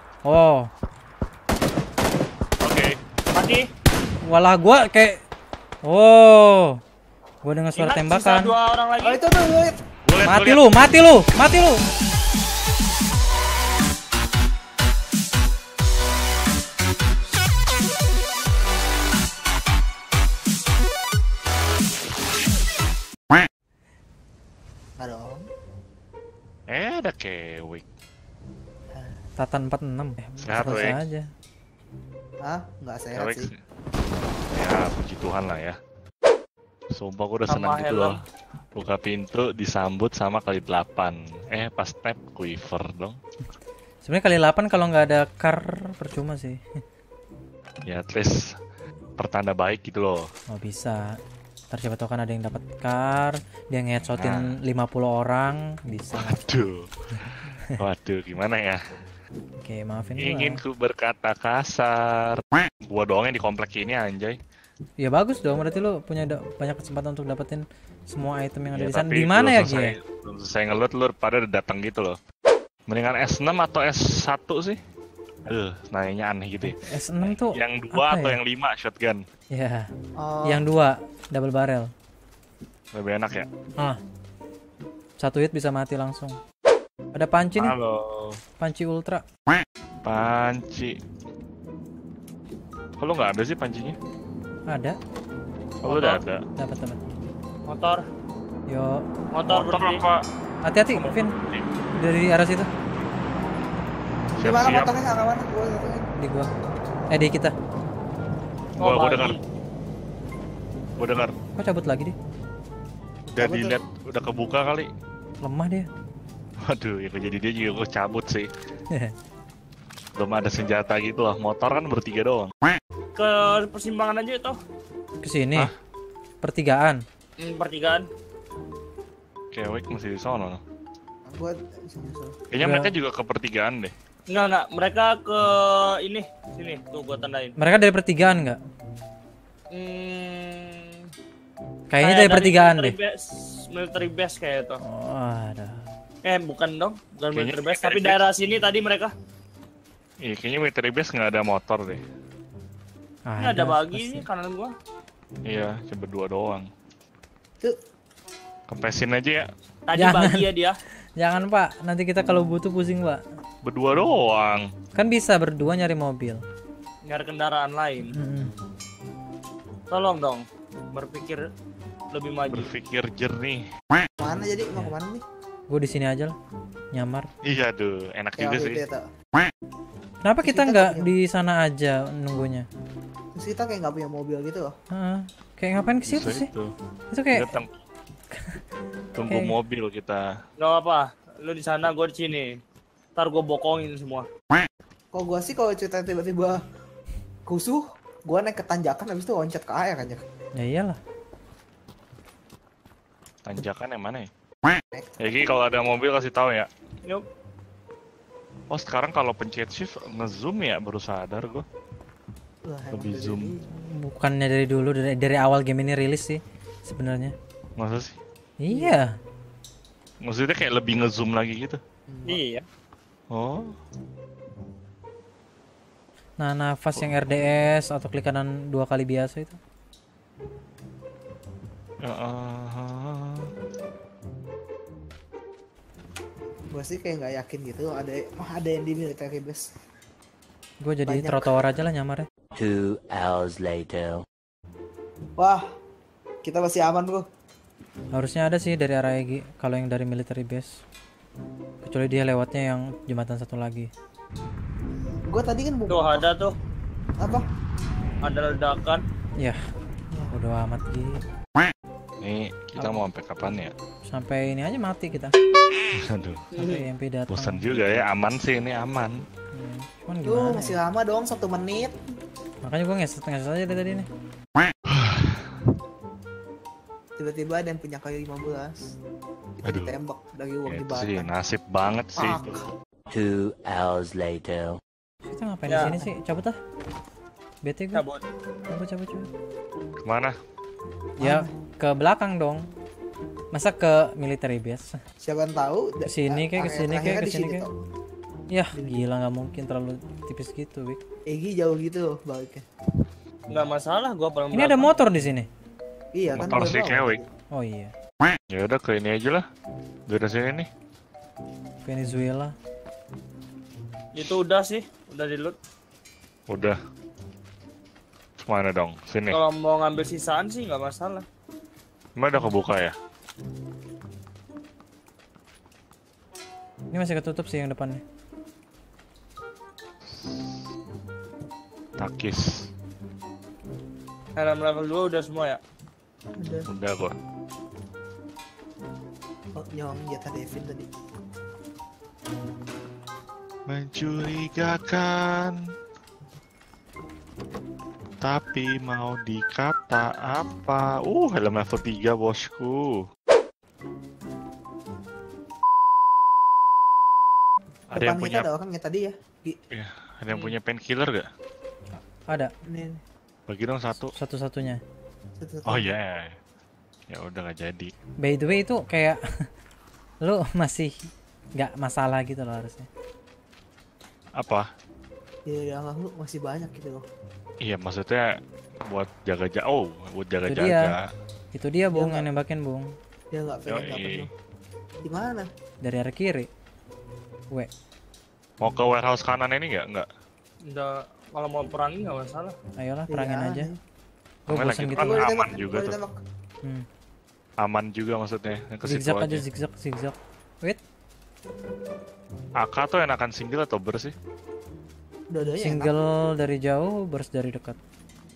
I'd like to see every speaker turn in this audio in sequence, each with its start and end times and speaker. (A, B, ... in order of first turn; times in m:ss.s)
0:00.2-0:00.7 A
0:02.6-0:03.0 B
0:03.3-0:03.6 C
0:04.2-0:05.2 A
0:05.8-0:06.8 A
0:07.4-0:08.5 A
0:07.8-0:09.2 C
0:09.0-0:09.8 D
0:10.0-0:10.6 B
0:10.2-0:11.8 A
0:25.0-0:25.4 D
0:26.7-0:27.8 B
0:29.4-0:31.3 A
0:30.4-0:31.0 B
0:30.6-0:31.0 D
0:32.4-0:33.5 D
0:33.1-0:33.6 B
0:34.5-0:35.8 B
0:36.9-0:38.2 B
0:37.5-0:38.2 C
0:38.7-0:43.2 B
0:44.0-0:46.6 A
0:47.8-0:48.5 B
0:49.2-0:50.3 B
0:50.5-0:51.2 A
0:51.7-0:56.4 A
0:54.1-0:54.6 B
0:56.1-0:56.9 B
0:57.8-0:58.8 B
0:59.6-1:00.6 A
1:00.2-1:04.4 B
1:05.0-1:10.0 A
1:08.7-1:12.2 B
1:12.9-1:14.8 B
1:15.4-1:19.2 B
1:16.6-1:18.4 A
1:19.5-1:19.9 A
1:20.2-1:20.6 D
1:20.4-1:21.9 A
1:22.9-1:23.5 B
1:25.2-1:26.4 A
1:27.1-1:27.8 A
1:27.6-1:28.4 B
1:28.6-1:29.2 A
1:30.0-1:31.0 B
1:33.0-1:34.0 B
1:34.7-1:35.0 A
1:35.8-1:36.4 B
1:35.8-1:36.2 C
1:36.6-1:37.0 A
1:37.7-1:38.0 C
1:38.7-1:39.0 A
1:39.3-1:40.0 C
1:39.5-1:40.2 B
1:40.6-1:41.3 A
1:40.9-1:41.6 B
1:42.0-1:42.7 A
1:44.4-1:46.1 D
1:44.4-1:44.9 B
1:46.2-1:46.5 A
1:47.1-1:47.5 A
1:48.8-1:49.4 B
1:48.8-1:49.4 C
1:51.0-1:51.3 B
1:51.6-1:52.1 A
1:53.3-1:53.8 D
1:53.4-1:54.9 B
1:55.4-1:55.9 A
1:56.6-1:58.5 B
2:00.2-2:02.5 B
2:03.2-2:04.6 C
2:05.2-2:05.7 A
2:06.4-2:07.0 A
2:07.4-2:08.1 C
2:09.5-2:10.6 B
2:11.2-2:12.4 D
2:12.5-2:13.9 B
2:12.6-2:12.9 A
2:14.3-2:17.5 C
2:17.6-2:18.6 A
2:19.7-2:21.0 C
2:21.9-2:23.0 A
2:22.0-2:24.8 C
2:24.8-2:25.8 A
2:26.2-2:29.1 C
2:27.3-2:28.2 B
2:30.2-2:32.0 B
2:33.3-2:34.3 A
2:33.4-2:34.7 C
2:35.4-2:36.7 B
2:38.7-2:39.5 B
2:39.9-2:40.8 C
2:40.0-2:40.5 A
2:41.2-2:43.2 A
2:43.6-2:44.7 B
2:44.9-2:46.4 A
2:47.0-2:48.1 C
2:48.1-2:48.5 A
2:49.9-2:51.4 C
2:52.1-2:52.7 C
2:52.5-2:53.6 B
2:54.2-2:55.2 D
2:55.7-2:56.3 A
2:56.9-2:57.3 A
2:57.4-2:58.8 B
2:58.4-2:59.0 D
3:00.2-3:02.7 A
3:00.4-3:01.1 D
3:03.3-3:04.7 D
3:04.9-3:06.5 A
3:06.0-3:06.7 B
3:07.1-3:07.6 A
3:07.3-3:07.7 B
3:08.3-3:08.6 A
3:09.2-3:10.3 B
3:09.2-3:09.6 A
3:10.6-3:12.5 C
3:13.2-3:14.3 C
3:15.1-3:16.6 D
3:17.5-3:20.2 D
3:20.6-3:21.0 A
3:23.4-3:24.3 B
3:25.2-3:26.7 B
3:28.7-3:31.6 B
3:32.6-3:33.6 D
3:32.9-3:33.5 B
3:33.7-3:37.3 A
3:37.8-3:38.2 B
3:38.6-3:39.1 A
3:38.7-3:39.0 D
3:40.2-3:41.8 B
3:42.1-3:42.4 D
3:42.3-3:42.6 C
3:43.3-3:43.7 B
3:46.4-3:49.6 A
3:52.0-3:53.5 B
3:56.7-3:59.6 D
4:00.8-4:02.2 A
4:01.0-4:01.7 D
4:02.6-4:04.2 E
4:05.4-4:05.7 D
4:06.4-4:07.2 D
4:08.1-4:10.7 A
4:11.8-4:13.9 A
4:15.3-4:16.3 D
4:15.9-4:16.6 C
4:17.2-4:17.4 D
4:18.2-4:19.0 C
4:20.3-4:21.2 A
4:22.2-4:23.7 B
4:22.8-4:23.0 A
4:24.0-4:25.3 A
4:25.9-4:26.5 B
4:26.5-4:26.8 C
4:26.5-4:27.6 A
4:27.3-4:29.2 B
4:29.5-4:30.8 A
4:30.2-4:32.0 D
4:32.6-4:34.1 A
4:34.9-4:35.6 B
4:37.2-4:38.8 D
4:39.6-4:41.3 D
4:39.6-4:39.9 B
4:40.6-4:42.5 B
4:42.1-4:42.7 D
4:43.1-4:44.8 E
4:45.2-4:46.6 A
4:45.7-4:46.0 C
4:47.6-4:48.0 A
4:47.9-4:48.2 C
4:48.7-4:49.3 A
4:50.0-4:50.3 B
4:51.2-4:51.5 D
4:51.2-4:52.6 A
4:53.5-4:54.9 A
4:55.2-4:57.7 D
4:56.0-4:57.6 A
4:58.5-5:01.0 A
4:58.7-4:59.0 D
5:01.3-5:02.6 D
5:03.5-5:04.9 C
5:04.5-5:05.5 A
5:06.1-5:07.2 D
5:06.3-5:07.2 B
5:07.5-5:07.9 A
5:08.5-5:09.4 B
5:10.1-5:10.7 B
5:11.8-5:12.5 A
5:14.1-5:15.5 C
5:16.5-5:16.8 B
5:18.4-5:19.4 B
5:19.3-5:21.2 C
5:22.2-5:23.0 B
5:26.9-5:28.0 A
5:30.1-5:30.5 B
5:32.0-5:32.7 B
5:34.4-5:35.6 C
5:36.4-5:36.7 D
5:36.7-5:37.2 B
5:39.5-5:40.9 D
5:43.7-5:45.6 B
5:48.2-5:53.0 B
5:57.9-5:58.5 B
5:57.9-5:59.6 D
5:59.7-6:01.3 B
6:01.9-6:02.5 A
6:02.7-6:03.0 D
6:03.5-6:04.1 B
6:04.0-6:04.8 A
6:05.4-6:05.9 D
6:05.7-6:06.4 B
6:07.1-6:07.9 B
6:08.2-6:09.2 A
6:10.2-6:10.9 A
6:11.6-6:12.9 A
6:14.3-6:14.7 B
6:15.4-6:17.0 D
6:17.6-6:21.1 B
6:20.4-6:20.9 A
6:21.5-6:22.9 A
6:21.9-6:22.2 D
6:23.3-6:24.3 D
6:23.7-6:24.3 B
6:25.0-6:25.5 D
6:25.8-6:26.5 A
6:28.6-6:30.1 B
6:30.7-6:32.5 C
6:32.8-6:33.7 A
6:33.1-6:33.8 D
6:34.5-6:35.2 A
6:34.5-6:36.0 B
6:34.9-6:36.2 D
6:37.6-6:39.4 B
6:38.8-6:40.8 A
6:42.6-6:44.1 B
6:45.3-6:46.0 D
6:45.5-6:47.8 A